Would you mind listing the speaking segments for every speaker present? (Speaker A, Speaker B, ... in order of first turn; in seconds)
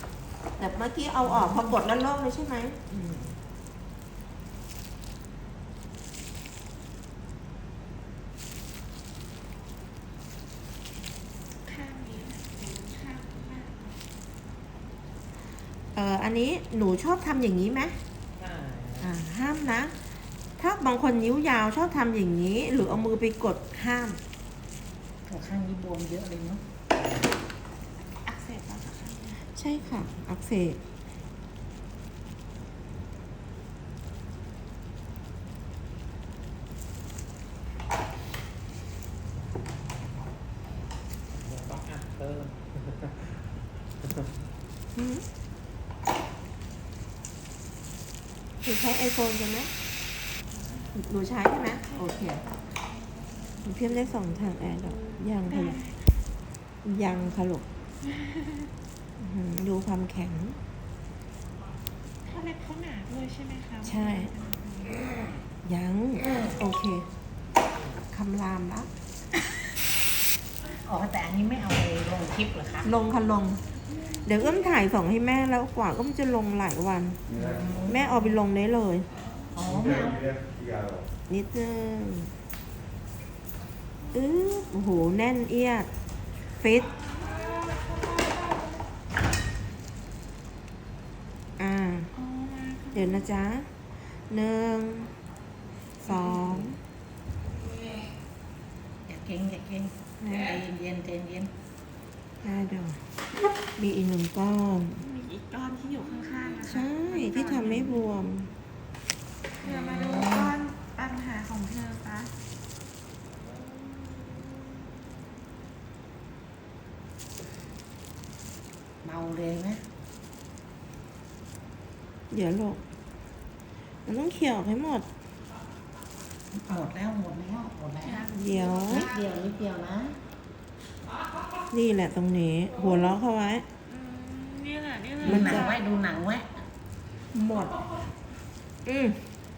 Speaker A: 0.6-3.2, 15.9-18.0, 19.0-19.9, 20.6-24.2, 29.6-30.8, 45.0-45.2, 48.6-49.7, 50.9-52.4, 53.6-55.8, 56.8-57.7, 59.2-60.6, 63.8-64.3, 65.6-67.1, 68.1-68.9, 72.8-73.6, 74.2-77.2, 77.9-79.1, 81.3-82.3, 84.1-85.9, 86.6-87.0, 91.6-92.1, 92.9-93.7, 94.3-95.2, 96.0-96.8, 100.2-100.6, 102.4-103.0, 103.6-105.0, 106.6-108.5, 122.3-122.8, 124.1-125.1, 128.3-129.1, 131.7-133.7, 135.2-135.7, 138.8-139.2
Speaker B: 3.0-3.3, 18.4-19.1, 41.3-43.4
Speaker C: 11.7-14.0, 28.2-29.5, 55.5-56.0, 58.1-58.7, 62.3-65.0, 92.1-93.3, 105.0-108.0, 109.6-112.3, 128.1-129.0, 133.9-135.7
Speaker D: 25.3-26.6, 70.7-72.9, 77.3-78.1, 79.5-80.4, 99.1-101.5, 109.6-110.5, 119.0-119.8, 126.5-128.3, 128.9-130.2, 135.2-136.6, 137.4-137.7